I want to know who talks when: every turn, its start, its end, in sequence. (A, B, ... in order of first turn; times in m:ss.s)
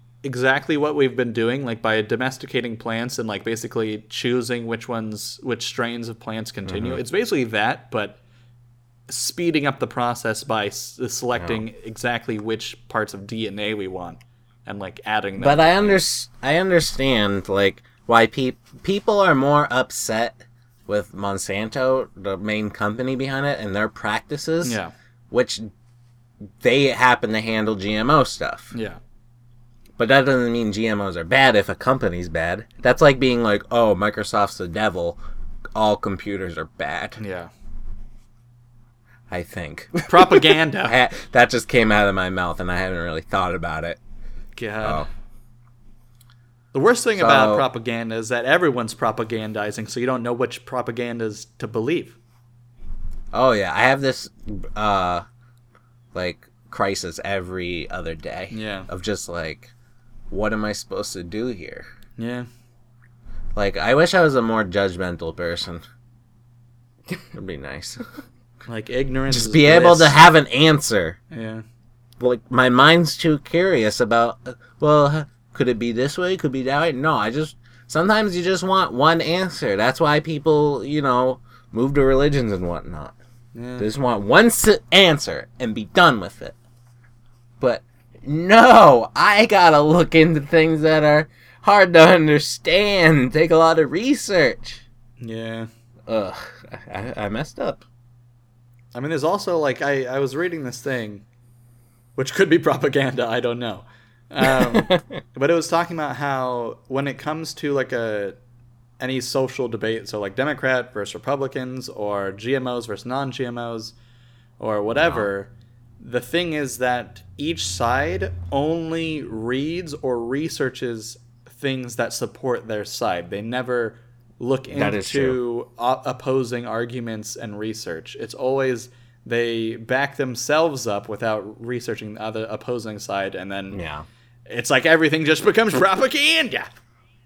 0:00.2-0:08.2 A
0:06.6-0:07.0 B
0:09.1-0:16.0 A
0:11.4-0:11.6 B
0:15.4-0:24.8 B
0:24.6-0:24.9 A
0:25.3-0:25.7 B
0:26.6-0:28.7 B
0:28.7-0:29.0 A
0:30.0-0:35.2 B
0:35.7-0:37.2 B
0:37.2-0:37.5 A
0:39.3-0:40.0 B
0:40.1-0:41.0 A
0:40.8-0:44.0 B
0:44.6-0:45.1 A
0:46.7-0:52.2 A
0:47.1-0:47.6 B
0:53.3-0:55.2 B
0:56.1-0:59.7 B
0:58.5-0:58.9 A
1:00.3-1:01.8 B
1:02.2-1:02.5 A
1:03.5-1:05.8 B
1:07.3-1:08.0 B
1:08.7-1:10.2 A
1:09.3-1:11.2 B
1:11.3-1:11.6 A
1:12.2-1:23.1 B
1:23.5-1:23.9 A
1:23.8-1:26.6 B
1:27.6-1:34.8 B
1:35.2-1:35.7 A
1:36.1-1:37.8 B
1:38.9-1:41.2 A
1:42.2-1:48.4 A
1:44.4-1:45.2 B
1:49.0-1:53.9 A
1:54.6-2:13.8 A
1:54.9-1:55.3 B
2:04.7-2:05.4 B
2:13.7-2:14.0 B
2:14.5-2:16.7 A